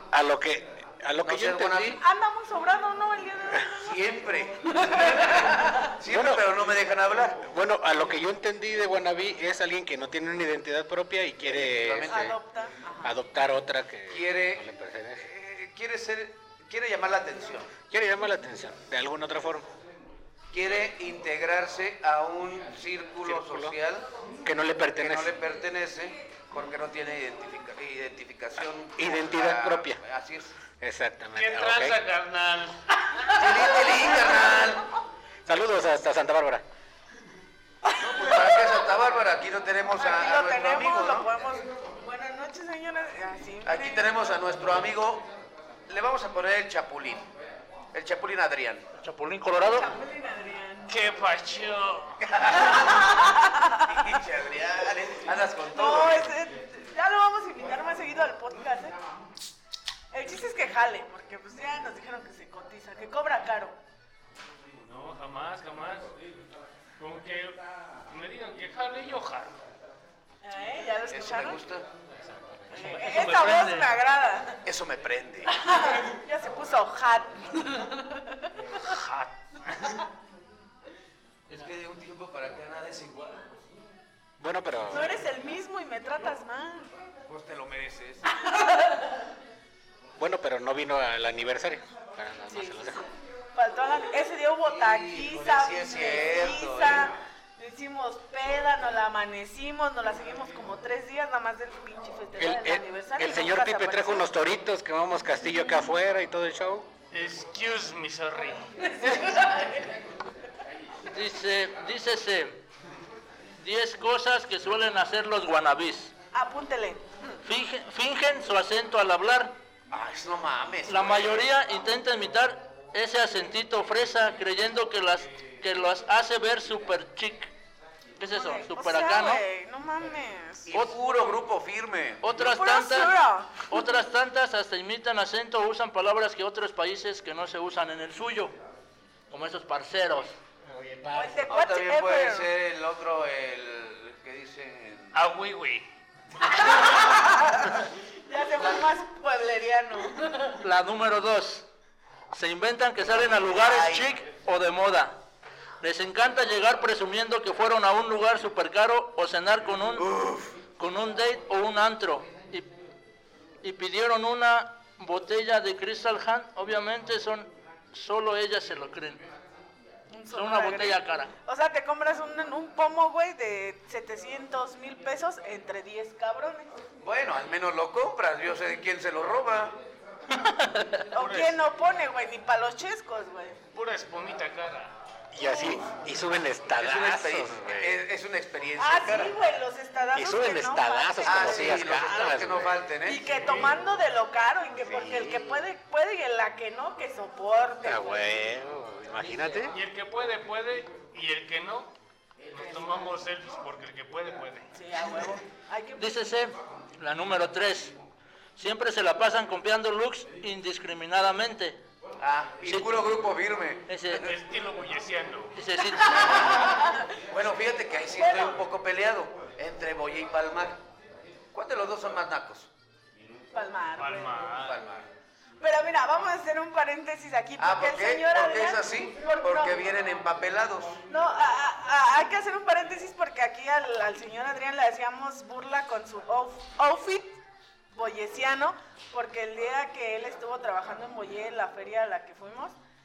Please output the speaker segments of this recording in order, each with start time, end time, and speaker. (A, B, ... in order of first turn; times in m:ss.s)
0:00.1-0:02.0 A
0:01.2-0:02.0 B
0:02.0-0:04.0 C
0:03.8-0:07.4 B
0:04.7-0:05.9 C
0:06.1-0:06.5 A
0:07.4-0:12.4 A
0:11.4-0:12.3 B
0:12.1-0:13.1 C
0:13.0-0:15.2 A
0:14.1-0:14.6 B
0:15.2-0:17.7 B
0:17.8-0:19.7 A
0:20.5-0:24.1 B
0:23.2-0:23.8 A
0:24.4-0:25.4 A
0:24.9-0:30.6 B
0:29.0-0:30.0 A
0:30.8-0:32.0 A
0:31.4-0:32.8 D
0:33.3-0:34.8 B
0:34.0-0:34.4 C
0:35.4-0:36.6 A
0:38.0-0:41.3 B
0:38.2-0:38.8 C
0:39.9-0:44.1 C
0:43.6-0:45.2 B
0:45.9-0:47.2 B
0:47.9-0:48.8 B
0:49.0-0:49.9 E
0:49.6-0:50.9 C
0:50.9-0:52.2 D
0:52.2-0:53.2 B
0:52.7-0:53.9 C
0:53.9-0:56.4 B
0:55.6-0:59.0 C
1:00.1-1:03.8 C
1:04.8-1:06.1 D
1:07.0-1:09.6 D
1:10.4-1:11.6 C
1:11.1-1:11.9 B
1:12.4-1:12.9 A
1:12.7-1:14.6 C
1:12.8-1:13.9 E
1:14.6-1:15.5 B
1:15.5-1:18.5 C
1:18.8-1:20.0 D
1:21.5-1:23.4 B
1:24.4-1:25.1 A
1:24.9-1:26.9 C
1:27.3-1:28.2 B
1:28.3-1:29.1 C
1:30.2-1:33.1 A
1:32.5-1:33.0 C
1:33.5-1:44.3 C
1:34.6-1:37.1 B
1:42.4-1:46.9 A
1:47.1-1:48.7 D
1:49.0-1:49.8 C
1:51.0-1:52.6 E
1:53.6-1:56.1 E
1:56.3-1:57.0 C
1:57.4-1:59.5 E
1:59.9-2:01.5 B
2:00.9-2:07.5 E
2:08.2-2:09.4 E
2:08.2-2:10.7 C
2:10.7-2:12.3 B
2:12.2-2:18.5 E
2:12.4-2:13.8 C
2:19.3-2:20.4 E
2:20.6-2:21.5 A
2:21.1-2:22.5 C
2:21.5-2:25.2 B
2:25.1-2:25.9 D
2:26.6-2:27.7 C
2:28.3-2:30.5 C
2:30.6-2:31.6 E
2:32.3-2:35.2 E
2:33.4-2:34.1 B
2:35.8-2:40.1 E
2:40.0-2:40.5 B
2:40.8-2:42.7 E
2:43.6-2:49.2 E
2:50.1-2:56.8 C
2:50.3-2:51.3 E
2:57.0-2:59.8 B
3:00.4-3:01.0 E
3:01.1-3:03.6 C
3:01.1-3:01.6 D
3:03.7-3:04.9 D
3:05.3-3:08.0 A
3:05.4-3:05.8 C
3:06.7-3:09.4 B
3:08.8-3:12.3 C
3:10.1-3:12.8 A
3:11.2-3:13.2 B
3:13.0-3:18.4 C
3:13.3-3:13.8 D
3:14.8-3:15.6 A
3:17.8-3:19.8 A
3:19.7-3:21.9 D
3:22.5-3:24.7 D
3:22.6-3:23.1 C
3:24.7-3:26.2 C
3:26.0-3:27.9 E
3:28.6-3:31.8 E
3:32.2-3:33.9 B
3:32.6-3:33.1 E
3:33.9-3:34.3 E
3:34.1-3:35.5 D
3:35.5-3:36.5 E
3:36.0-3:37.1 C
3:37.3-3:40.8 B
3:38.1-3:38.6 C
3:41.5-3:42.7 B
3:43.5-3:44.5 C
3:44.0-3:44.8 D
3:44.5-3:45.1 B
3:45.6-3:49.8 C
3:47.6-3:51.0 B
3:51.1-3:57.4 C
3:57.9-4:02.7 C